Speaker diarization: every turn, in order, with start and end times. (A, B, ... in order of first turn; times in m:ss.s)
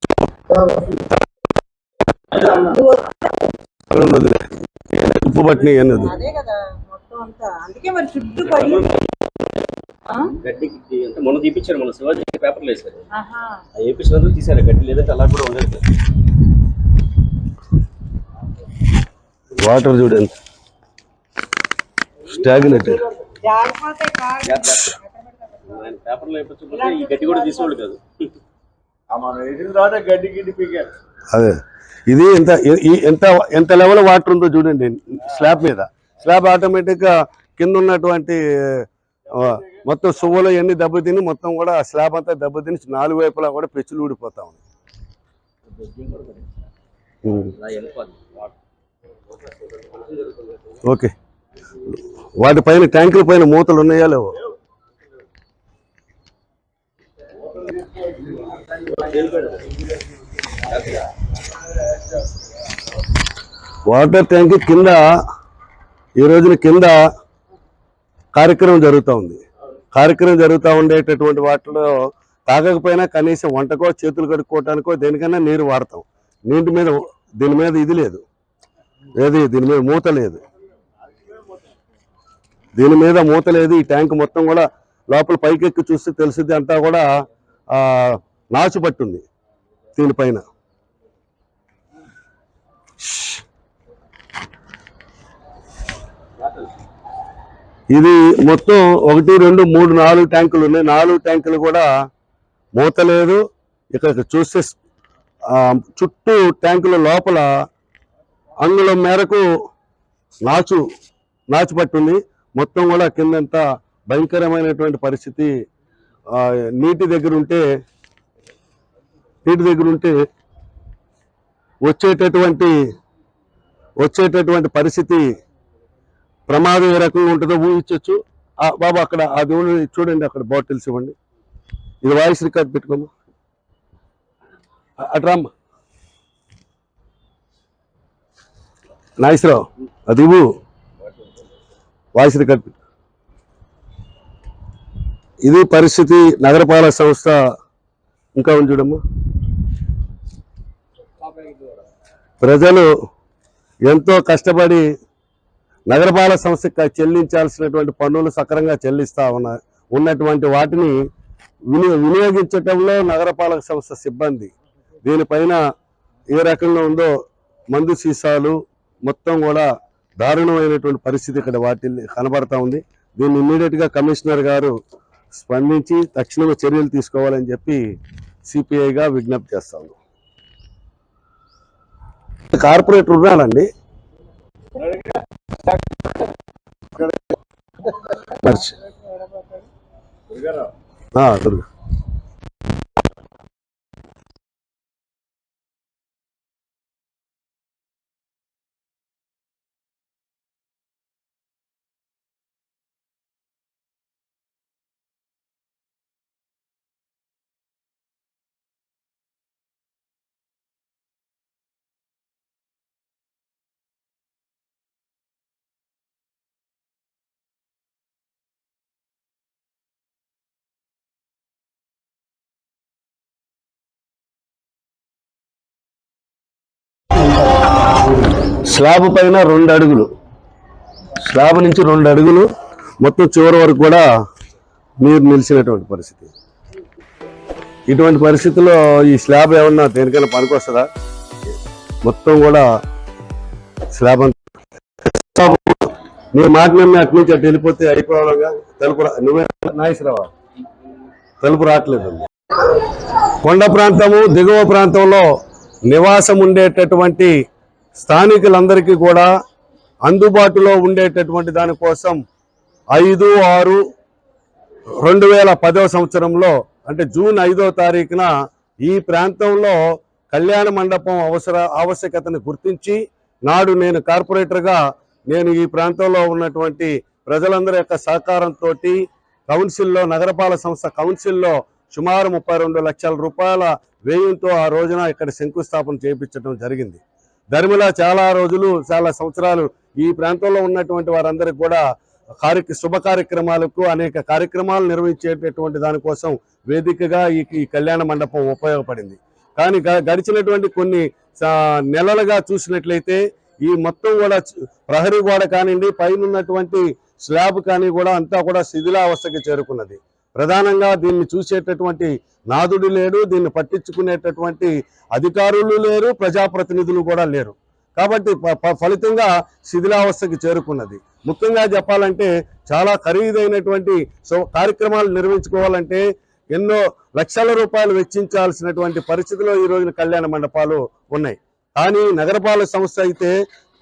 0:00.5-0:00.9 A
0:02.6-0:03.5 A
0:03.9-0:06.2 B
0:06.0-0:08.9 A
0:08.4-0:09.5 C
0:10.1-0:10.3 A
0:10.4-0:13.1 C
0:13.1-0:13.6 A
0:13.8-0:15.8 C
0:19.6-0:20.3 B
0:22.3-0:23.0 B
0:23.3-0:25.8 A
0:24.4-0:25.0 C
0:25.6-0:28.0 C
0:26.8-0:27.7 A
0:29.1-0:30.9 C
0:31.3-0:44.6 B
0:45.7-0:46.4 C
0:47.2-0:47.5 B
0:47.6-0:48.4 C
0:50.0-0:50.5 C
0:50.8-0:51.1 B
0:52.4-0:54.4 B
0:58.7-0:59.7 C
1:00.6-1:01.0 C
1:03.9-1:05.0 B
1:06.2-1:07.0 B
1:08.3-1:09.4 B
1:09.9-1:12.0 B
1:12.5-1:18.2 B
1:19.2-1:20.4 B
1:22.8-1:27.1 B
1:27.7-1:29.2 B
1:30.0-1:30.4 B
1:37.9-1:41.9 B
1:42.8-1:43.4 B
1:43.9-1:44.8 B
1:45.5-1:47.5 B
1:48.6-1:49.4 B
1:50.4-1:50.8 B
1:51.5-1:55.5 B
1:56.3-1:57.6 B
1:59.4-2:00.1 B
2:01.8-2:02.7 B
2:04.0-2:05.2 B
2:06.5-2:11.2 B
2:12.0-2:13.1 B
2:15.0-2:15.5 B
2:19.2-2:20.5 B
2:22.1-2:22.8 B
2:25.4-2:27.4 B
2:28.3-2:29.0 B
2:32.4-2:32.9 B
2:33.9-2:34.8 B
2:35.9-2:41.0 B
2:41.7-2:44.5 B
2:45.0-2:45.6 B
2:46.3-2:47.1 B
2:47.7-2:49.7 B
2:50.2-2:54.7 B
2:55.4-2:57.8 B
2:58.4-2:59.9 B
3:02.5-3:03.7 B
3:08.2-3:08.8 B
3:11.1-3:11.6 B
3:48.6-3:50.1 B
3:51.2-3:52.5 B
3:53.0-3:54.0 B
3:55.0-3:56.3 B
3:57.9-4:00.9 B
4:02.0-4:02.7 B
4:03.9-4:04.4 B
4:05.2-4:10.3 B
4:11.4-4:12.2 B
4:13.4-4:15.3 B
4:15.9-4:17.3 B
4:18.0-4:19.3 B
4:20.1-4:22.2 B
4:22.9-4:23.8 B
4:25.0-4:28.3 B
4:28.8-4:29.8 B
4:30.3-4:47.0 B
4:47.5-4:51.8 B
4:52.4-5:33.3 B